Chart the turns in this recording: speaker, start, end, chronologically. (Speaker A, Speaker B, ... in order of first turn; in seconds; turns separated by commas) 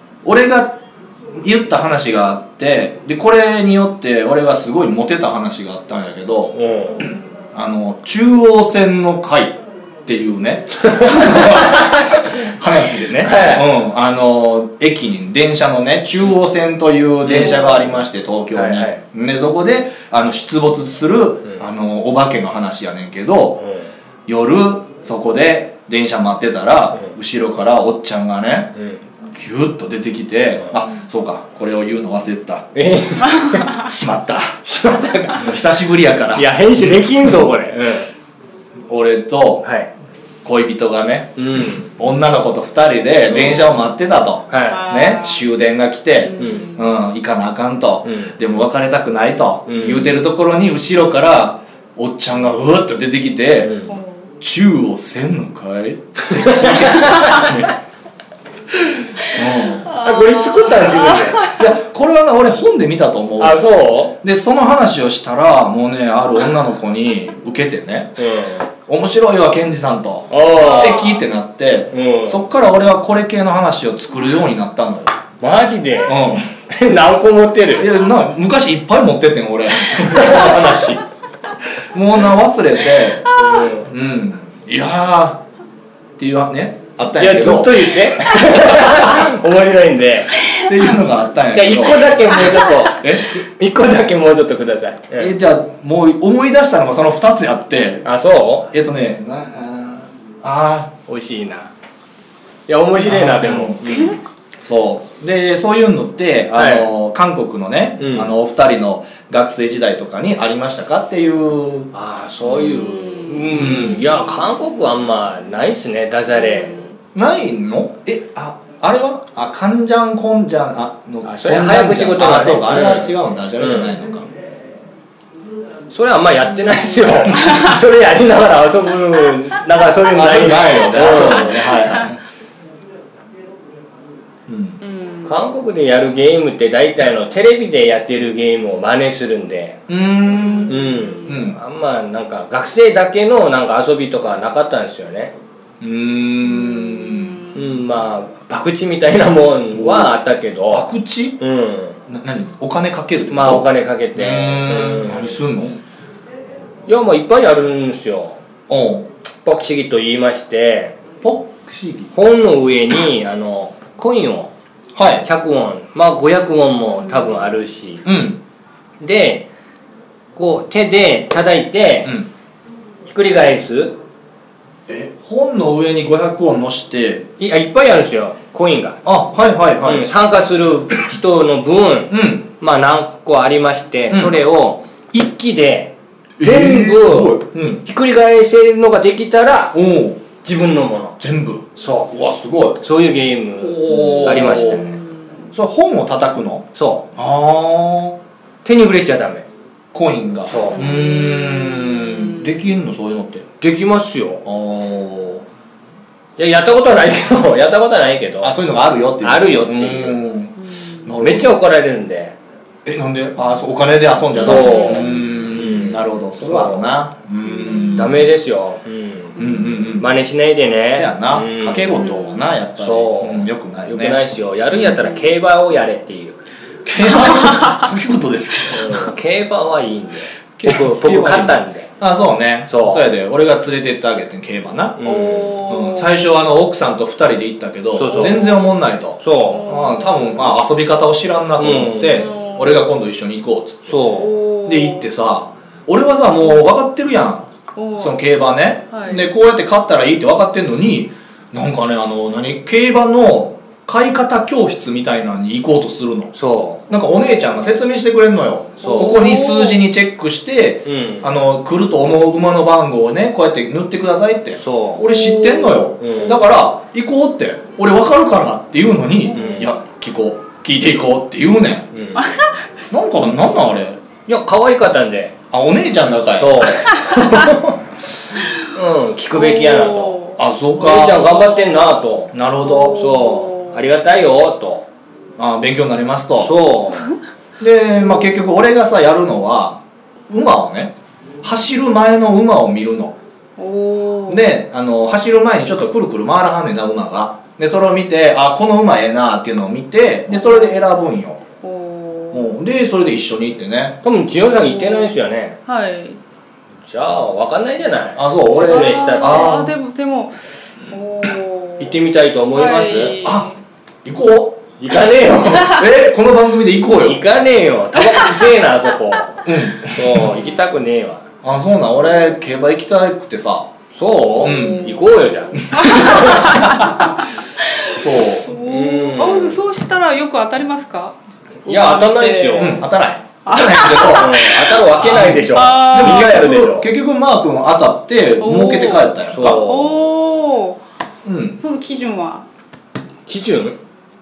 Speaker A: 0.2-0.8, Speaker A: 1.3-6.5, Speaker B: 6.5-7.1, Speaker A: 7.5-23.6, Speaker B: 10.9-12.2, Speaker B: 13.2-13.7, Speaker B: 17.2-19.0, Speaker B: 23.6-23.9, Speaker A: 24.3-28.7, Speaker B: 28.8-29.0, Speaker A: 29.3-32.7, Speaker B: 32.8-33.8, Speaker A: 33.6-37.0, Speaker B: 34.7-35.5, Speaker B: 36.3-38.1, Speaker A: 38.9-39.6, Speaker B: 39.6-39.9, Speaker A: 40.4-53.7, Speaker B: 41.4-41.9, Speaker B: 43.3-43.7, Speaker B: 44.5-44.9, Speaker C: 44.6-45.5, Speaker C: 46.2-46.9, Speaker B: 46.4-46.8, Speaker B: 48.0-48.4, Speaker B: 49.7-50.2, Speaker B: 53.6-53.9, Speaker C: 53.9-54.3, Speaker A: 54.4-57.7, Speaker B: 56.4-57.5, Speaker A: 59.3-59.9, Speaker C: 59.4-61.7, Speaker B: 59.8-61.5, Speaker A: 61.3-68.2, Speaker B: 63.4-64.2, Speaker B: 68.2-68.7, Speaker A: 68.8-75.2, Speaker B: 70.3-71.1, Speaker C: 70.6-71.2, Speaker B: 71.9-72.5, Speaker B: 75.4-77.9, Speaker A: 76.0-76.5, Speaker A: 77.7-81.0, Speaker B: 80.2-80.6, Speaker A: 81.9-83.3, Speaker C: 83.3-83.7, Speaker B: 83.3-83.9, Speaker A: 83.9-85.4, Speaker A: 86.2-89.3, Speaker B: 87.1-90.4, Speaker A: 90.5-93.3, Speaker B: 91.5-95.3, Speaker A: 95.2-98.0, Speaker B: 98.0-98.7, Speaker A: 98.7-100.9, Speaker B: 101.1-101.7, Speaker B: 102.7-104.2, Speaker A: 103.0-104.1, Speaker C: 103.5-104.2, Speaker A: 104.6-111.9, Speaker B: 106.5-106.9, Speaker B: 108.0-108.3, Speaker B: 111.9-116.8, Speaker C: 112.4-114.4, Speaker A: 113.5-114.0, Speaker C: 116.3-117.0, Speaker A: 117.2-124.3, Speaker B: 121.2-124.0, Speaker B: 125.9-131.8, Speaker C: 126.6-127.7, Speaker A: 130.1-132.2, Speaker C: 131.5-132.0, Speaker A: 134.5-134.8, Speaker C: 134.8-135.5, Speaker B: 135.3-139.8, Speaker A: 139.9-141.6, Speaker C: 140.3-141.4, Speaker B: 140.7-145.3, Speaker A: 145.8-147.4, Speaker C: 146.6-147.7, Speaker B: 147.5-152.0, Speaker A: 149.7-150.2, Speaker A: 150.7-151.4, Speaker A: 152.1-155.8, Speaker B: 153.3-155.4, Speaker B: 156.9-158.4, Speaker A: 158.7-159.1, Speaker B: 159.4-161.0, Speaker A: 161.2-162.1, Speaker B: 162.1-164.5, Speaker A: 164.9-165.3, Speaker B: 165.2-168.1, Speaker C: 167.0-167.5, Speaker A: 168.1-168.4, Speaker B: 169.0-169.5, Speaker B: 170.3-172.1, Speaker B: 173.0-174.0, Speaker A: 174.9-177.2, Speaker B: 177.4-179.0, Speaker A: 179.1-180.1, Speaker B: 179.8-191.2, Speaker A: 182.1-182.5, Speaker A: 184.1-184.4, Speaker A: 186.4-187.8, Speaker A: 189.7-190.2, Speaker A: 191.2-192.8, Speaker B: 191.8-192.1, Speaker B: 192.8-195.0, Speaker A: 193.6-195.0, Speaker C: 193.8-195.5, Speaker A: 195.5-198.2, Speaker B: 196.8-197.1, Speaker B: 198.6-199.5, Speaker A: 199.9-203.5, Speaker B: 200.5-201.0, Speaker C: 200.7-202.6, Speaker B: 203.6-204.4, Speaker A: 204.4-205.5, Speaker B: 206.4-208.6, Speaker A: 208.4-211.6, Speaker B: 209.2-210.2, Speaker C: 210.6-211.1, Speaker B: 211.2-212.4, Speaker A: 212.8-218.3, Speaker B: 214.3-217.0, Speaker C: 214.4-215.5, Speaker C: 217.4-218.2, Speaker B: 217.9-222.0, Speaker C: 219.4-220.0, Speaker A: 219.4-220.2, Speaker A: 220.9-225.2, Speaker C: 221.9-222.5, Speaker B: 222.8-226.4, Speaker A: 226.8-229.2, Speaker C: 227.2-227.8, Speaker B: 228.7-231.9, Speaker A: 230.6-235.0, Speaker B: 232.7-233.1, Speaker B: 235.0-235.6, Speaker C: 235.0-236.2, Speaker A: 235.7-244.0, Speaker B: 237.9-238.5, Speaker C: 238.1-240.6, Speaker B: 239.2-239.7, Speaker B: 241.6-242.2, Speaker C: 242.0-243.0, Speaker B: 243.9-244.3, Speaker C: 244.1-245.1, Speaker A: 244.7-247.5, Speaker C: 247.8-248.3, Speaker A: 248.0-256.4, Speaker C: 248.9-249.3, Speaker B: 256.4-256.8, Speaker A: 256.9-271.9, Speaker B: 258.8-259.2, Speaker C: 258.8-259.9, Speaker B: 260.9-261.3, Speaker B: 264.6-265.1, Speaker C: 265.0-266.0, Speaker B: 266.0-266.4, Speaker C: 269.3-269.8, Speaker B: 269.3-269.8, Speaker B: 271.9-272.3, Speaker C: 272.2-272.7, Speaker A: 272.9-274.0, Speaker B: 274.3-275.3, Speaker A: 275.5-276.7, Speaker B: 276.3-277.8, Speaker C: 276.9-277.4, Speaker B: 278.4-280.2, Speaker C: 279.3-280.4, Speaker A: 280.4-281.4, Speaker B: 280.8-282.3, Speaker C: 281.0-281.9, Speaker A: 282.3-283.1, Speaker C: 282.6-283.9, Speaker B: 282.9-284.9, Speaker A: 285.4-286.5, Speaker B: 286.4-287.1, Speaker A: 287.6-293.2, Speaker C: 293.6-294.5, Speaker A: 294.3-301.4, Speaker C: 300.3-300.9, Speaker C: 301.6-302.6, Speaker A: 302.3-304.0, Speaker B: 304.0-305.6, Speaker C: 304.5-306.2, Speaker B: 306.8-309.6, Speaker A: 308.2-309.7, Speaker C: 308.6-312.0, Speaker B: 311.8-313.2, Speaker C: 312.5-313.6, Speaker A: 313.2-313.5, Speaker A: 314.1-314.6, Speaker B: 314.8-315.9, Speaker A: 315.5-317.2, Speaker B: 317.0-321.2, Speaker C: 318.2-318.5, Speaker A: 319.5-320.3, Speaker A: 321.4-323.7, Speaker B: 323.9-326.6, Speaker C: 324.4-332.9, Speaker A: 324.4-325.1, Speaker A: 325.7-327.1, Speaker A: 327.9-328.5, Speaker B: 328.6-329.6, Speaker B: 331.7-332.9, Speaker A: 332.6-339.6, Speaker C: 333.5-336.7, Speaker B: 334.0-336.9, Speaker C: 338.4-340.8, Speaker B: 339.3-340.1, Speaker A: 341.2-341.6, Speaker C: 341.6-342.5, Speaker B: 343.3-343.8